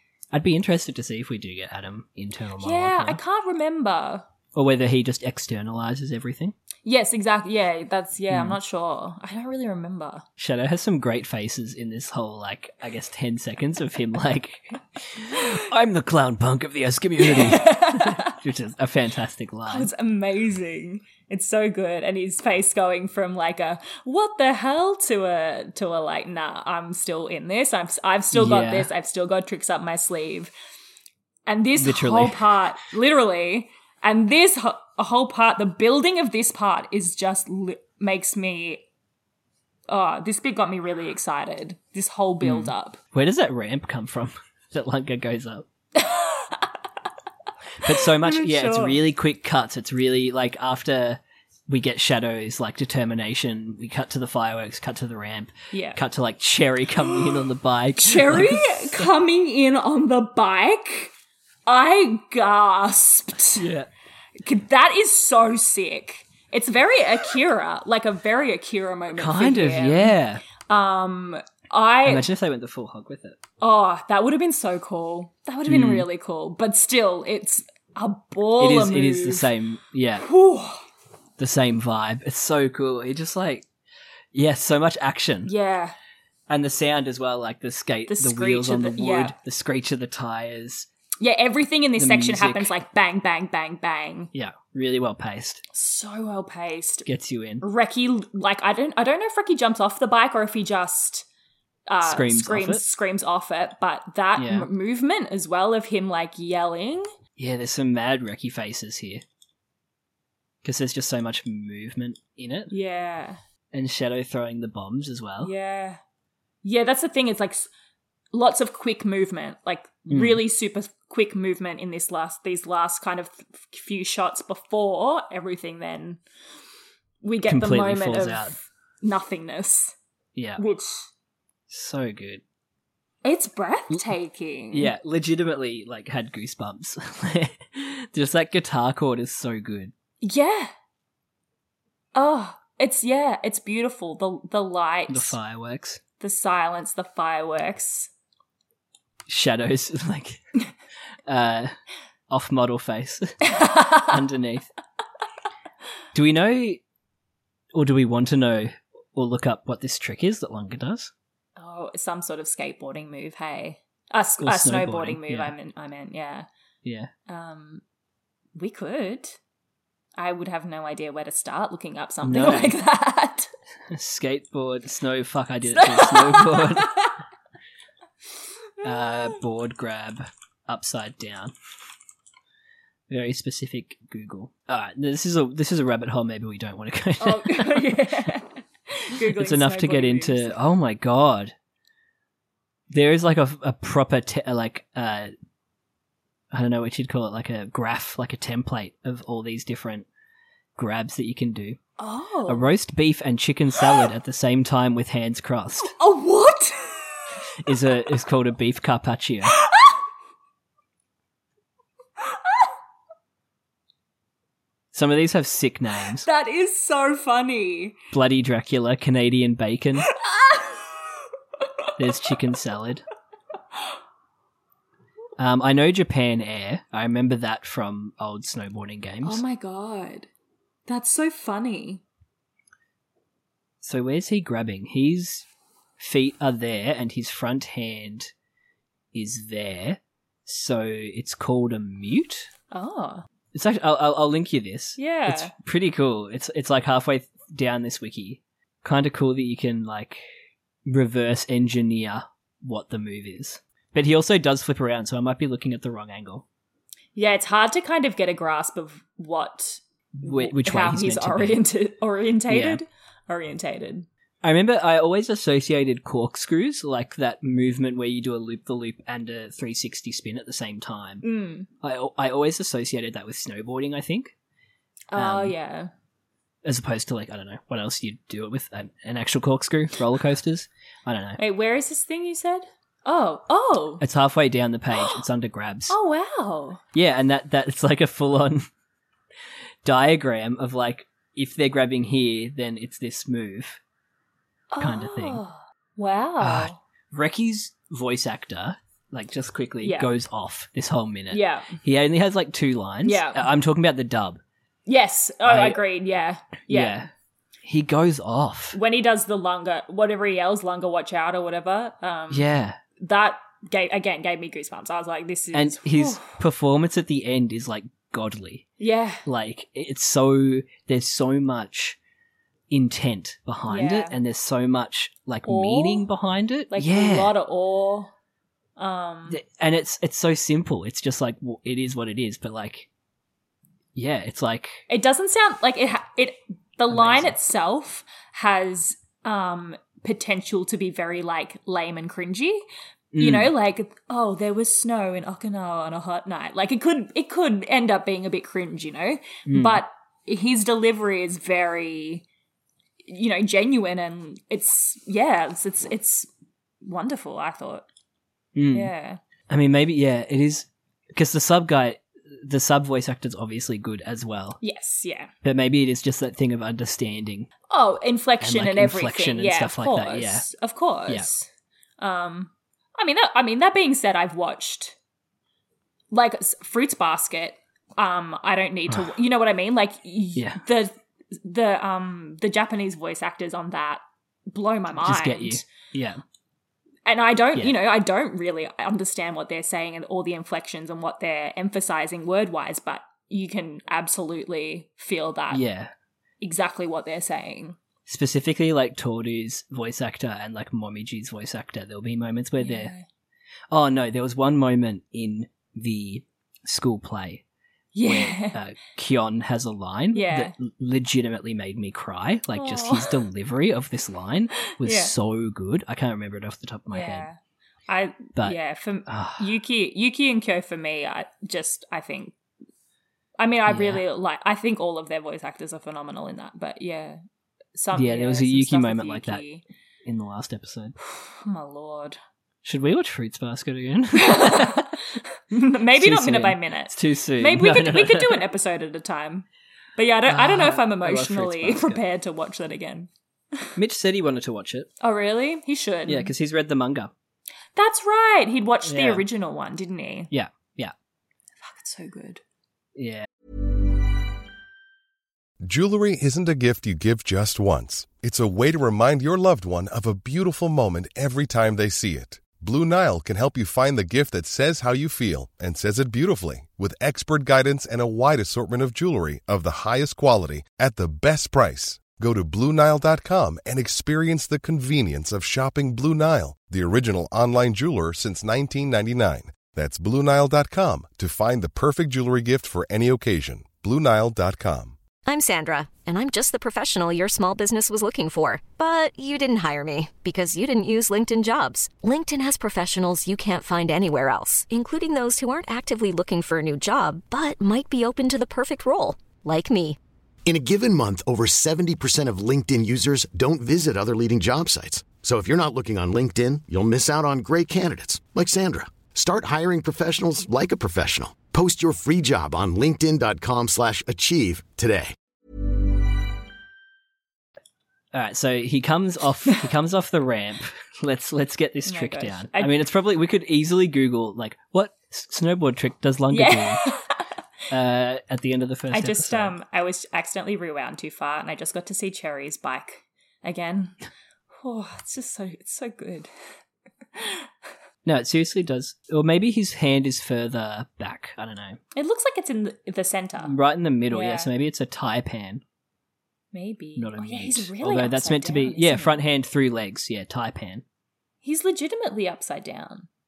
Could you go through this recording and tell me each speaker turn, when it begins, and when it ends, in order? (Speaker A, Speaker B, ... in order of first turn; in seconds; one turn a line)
Speaker A: 0.3-3.2
Speaker B: 2.6-4.2
Speaker A: 4.5-6.5
Speaker B: 6.8-10.2
Speaker A: 8.3-8.6
Speaker A: 10.4-19.9
Speaker B: 17.2-18.4
Speaker B: 19.7-30.5
Speaker A: 28.3-28.9
Speaker B: 31.5-38.8
Speaker A: 31.8-32.5
Speaker B: 39.9-43.0
Speaker A: 42.4-45.7
Speaker B: 45.9-46.7
Speaker A: 47.8-59.1
Speaker B: 47.9-49.0
Speaker B: 55.7-56.0
Speaker B: 57.0-61.1
Speaker B: 61.6-63.7
Speaker A: 63.5-63.9
Speaker B: 64.4-70.2
Speaker A: 69.1-70.4
Speaker B: 70.7-72.3
Speaker A: 72.0-73.4
Speaker B: 73.6-79.5
Speaker A: 75.7-76.1
Speaker A: 78.6-80.2
Speaker B: 80.2-80.8
Speaker A: 81.4-83.7
Speaker A: 84.3-85.5
Speaker B: 85.5-86.0
Speaker A: 86.5-90.9
Speaker B: 88.1-89.3
Speaker B: 91.2-94.3
Speaker A: 92.0-92.7
Speaker A: 94.3-95.6
Speaker B: 95.7-97.1
Speaker A: 97.0-97.6
Speaker B: 97.6-101.3
Speaker B: 101.9-107.1
Speaker A: 102.0-102.8
Speaker A: 104.3-104.7
Speaker A: 107.4-109.2
Speaker A: 110.6-112.7
Speaker B: 112.7-113.4
Speaker A: 113.7-115.5
Speaker B: 115.4-116.0
Speaker B: 116.6-117.7
Speaker B: 118.3-126.2
Speaker A: 120.1-120.4
Speaker B: 127.2-129.9
Speaker A: 127.5-128.6
Speaker A: 130.3-130.6
Speaker B: 130.6-131.1
Speaker A: 131.7-132.4
Speaker B: 133.2-134.9
Speaker A: 134.7-139.9
Speaker B: 140.2-140.7
Speaker B: 142.1-145.4
Speaker A: 145.1-146.0
Speaker B: 146.2-148.1
Speaker A: 149.3-150.4
Speaker A: 151.3-151.7
Speaker A: 152.3-154.7
Speaker B: 153.4-154.2
Speaker A: 156.1-156.8
Speaker A: 157.7-161.1
Speaker B: 161.6-166.5
Speaker A: 164.4-165.5
Speaker A: 166.8-167.1
Speaker B: 167.3-167.8
Speaker B: 168.5-169.4
Speaker B: 170.2-173.5
Speaker A: 172.2-172.8
Speaker A: 173.9-177.0
Speaker B: 175.7-177.1
Speaker A: 178.8-181.5
Speaker B: 178.8-179.4
Speaker A: 183.1-188.0
Speaker B: 187.2-190.6
Speaker A: 189.3-191.5
Speaker A: 192.9-195.3
Speaker A: 196.5-200.1
Speaker A: 200.8-201.8
Speaker B: 202.0-202.7
Speaker A: 202.5-205.9
Speaker B: 205.8-207.2
Speaker A: 207.6-209.5
Speaker B: 209.5-209.9
Speaker A: 214.9-216.2
Speaker B: 216.2-218.0
Speaker A: 218.1-220.1
Speaker B: 220.1-220.8
Speaker A: 222.0-223.0
Speaker A: 225.4-229.4
Speaker B: 229.2-230.3
Speaker B: 230.9-232.0
Speaker A: 233.8-235.4
Speaker A: 236.0-238.3
Speaker A: 239.1-242.5
Speaker B: 242.7-243.2
Speaker A: 243.5-250.2
Speaker B: 245.0-245.5
Speaker A: 250.8-256.4
Speaker B: 257.1-264.1
Speaker A: 260.1-261.6
Speaker A: 262.5-262.8
Speaker A: 264.4-271.2
Speaker B: 271.2-271.7
Speaker A: 271.8-274.3
Speaker B: 275.1-275.9
Speaker A: 275.1-275.5
Speaker A: 276.6-281.4
Speaker B: 281.4-284.0
Speaker A: 284.0-285.9
Speaker B: 285.9-286.8
Speaker A: 286.9-288.7
Speaker A: 289.8-293.8
Speaker B: 294.7-296.8
Speaker A: 294.8-295.4
Speaker A: 296.4-304.4
Speaker B: 299.8-300.1
Speaker B: 301.3-301.8
Speaker B: 303.0-303.5
Speaker B: 304.9-307.0
Speaker A: 305.4-305.8
Speaker A: 306.7-307.1
Speaker A: 307.6-308.8
Speaker B: 308.7-312.5
Speaker A: 312.3-312.8
Speaker B: 313.0-316.4
Speaker A: 315.5-318.7
Speaker B: 318.8-319.2
Speaker A: 319.2-322.0
Speaker A: 322.7-327.3
Speaker B: 323.7-324.1
Speaker B: 325.4-326.1
Speaker B: 326.7-328.1
Speaker B: 328.8-329.4
Speaker A: 329.3-332.9
Speaker A: 333.9-334.8
Speaker B: 334.9-342.6
Speaker A: 336.9-337.3
Speaker A: 343.1-343.5
Speaker B: 343.2-352.2
Speaker A: 349.5-349.8
Speaker B: 353.1-356.3
Speaker B: 356.8-357.9
Speaker A: 358.5-358.9
Speaker B: 358.7-359.2
Speaker A: 359.5-364.6
Speaker B: 364.6-365.3
Speaker A: 365.4-367.5
Speaker B: 367.7-371.5
Speaker A: 368.4-370.4
Speaker B: 372.0-374.9
Speaker B: 376.1-385.6
Speaker A: 380.4-380.6
Speaker A: 385.0-386.2
Speaker B: 387.0-395.6
Speaker A: 395.5-395.9
Speaker B: 396.4-397.8
Speaker A: 398.1-402.9
Speaker B: 402.6-403.0
Speaker A: 403.7-407.4
Speaker B: 407.9-408.6
Speaker A: 408.0-417.3
Speaker B: 410.1-410.5
Speaker B: 412.5-413.2
Speaker B: 414.7-415.1
Speaker B: 416.9-417.4
Speaker B: 417.9-422.3
Speaker A: 418.4-419.4
Speaker B: 423.4-427.2
Speaker A: 423.7-424.0
Speaker B: 427.7-429.6
Speaker A: 427.9-429.4
Speaker A: 430.0-431.0
Speaker B: 431.0-432.2
Speaker A: 432.6-434.9
Speaker B: 434.1-439.4
Speaker A: 435.9-438.4
Speaker B: 440.0-443.8
Speaker A: 440.3-442.0
Speaker A: 443.8-444.9
Speaker B: 445.0-446.3
Speaker A: 446.1-447.1
Speaker B: 447.8-450.3
Speaker A: 448.8-449.2
Speaker A: 450.3-450.9
Speaker B: 451.6-452.4
Speaker A: 452.9-453.3
Speaker C: 455.6-485.0
Speaker D: 485.2-500.0
Speaker E: 500.4-515.1
Speaker A: 518.1-526.8
Speaker B: 521.9-522.7
Speaker B: 526.3-527.2
Speaker A: 527.7-529.5
Speaker B: 528.9-534.0
Speaker B: 534.6-536.3
Speaker B: 537.1-537.5
Speaker A: 538.0-541.8
Speaker B: 541.9-543.5
Speaker A: 543.4-545.6
Speaker B: 544.1-544.5
Speaker B: 546.5-549.2
Speaker A: 547.0-550.8
Speaker B: 551.4-553.1